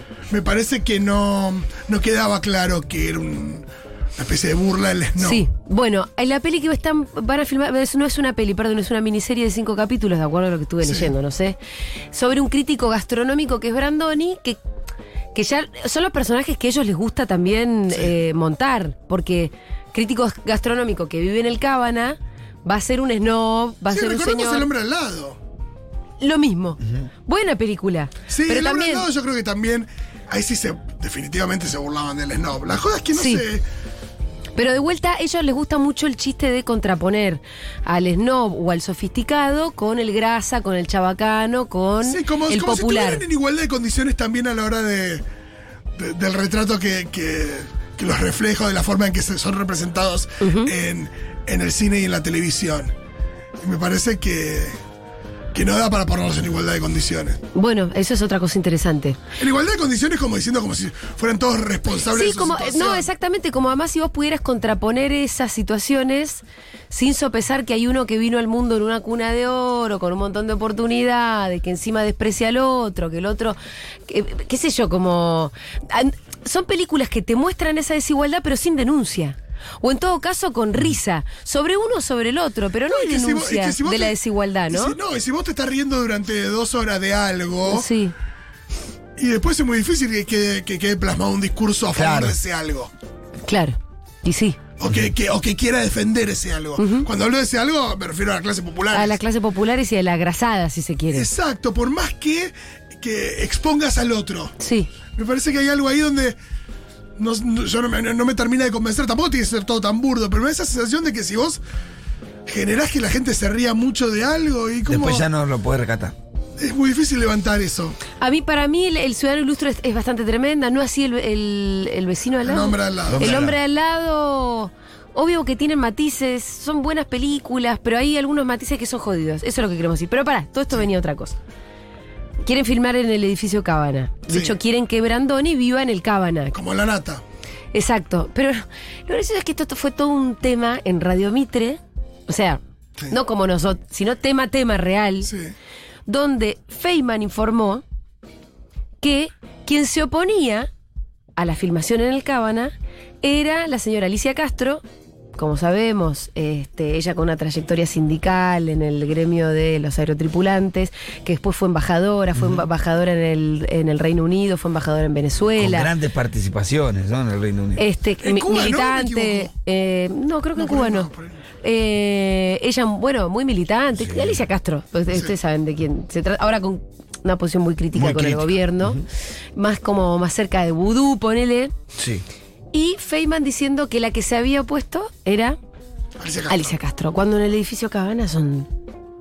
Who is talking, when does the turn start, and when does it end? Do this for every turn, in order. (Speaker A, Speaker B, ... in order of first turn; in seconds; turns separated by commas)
Speaker A: 0.3-3.7, Speaker A: 4.2-5.5, Speaker B: 5.2-11.6, Speaker A: 10.8-11.1, Speaker B: 12.1-14.6, Speaker B: 15.3-24.7, Speaker A: 23.9-25.4, Speaker B: 26.2-29.1, Speaker A: 28.3-33.6, Speaker B: 33.1-33.5, Speaker B: 34.6-43.2, Speaker A: 42.0-45.2, Speaker A: 46.0-52.9, Speaker B: 50.4-50.7, Speaker A: 53.6-54.8, Speaker A: 55.5-57.4, Speaker B: 57.5-59.2, Speaker A: 59.4-63.1, Speaker B: 62.1-85.0, Speaker A: 82.9-84.2, Speaker A: 84.7-87.9, Speaker B: 87.7-88.1, Speaker A: 89.2-92.9, Speaker C: 91.9-92.4, Speaker B: 93.5-94.6, Speaker A: 94.8-99.2, Speaker B: 96.8-97.1, Speaker B: 98.9-101.3, Speaker A: 101.1-104.5, Speaker B: 104.6-104.9, Speaker A: 105.2-106.4, Speaker A: 107.2-111.6, Speaker A: 112.5-115.2, Speaker C: 114.9-116.2, Speaker A: 116.6-118.0, Speaker B: 118.2-131.4, Speaker A: 122.5-123.5, Speaker C: 123.1-123.6, Speaker B: 132.4-136.6, Speaker A: 134.3-134.6, Speaker A: 136.5-137.2, Speaker B: 137.7-145.3, Speaker A: 145.2-145.5, Speaker B: 146.1-147.8, Speaker B: 149.0-150.7, Speaker B: 151.4-154.8, Speaker B: 155.4-165.9, Speaker C: 162.3-162.6, Speaker C: 165.6-167.8, Speaker B: 167.8-171.1, Speaker A: 168.2-169.5, Speaker A: 170.6-171.4, Speaker B: 171.6-179.0, Speaker C: 174.0-174.4, Speaker C: 177.9-179.0, Speaker B: 179.6-181.7, Speaker C: 182.0-182.2, Speaker B: 182.7-185.6, Speaker A: 186.2-186.7, Speaker B: 186.5-188.7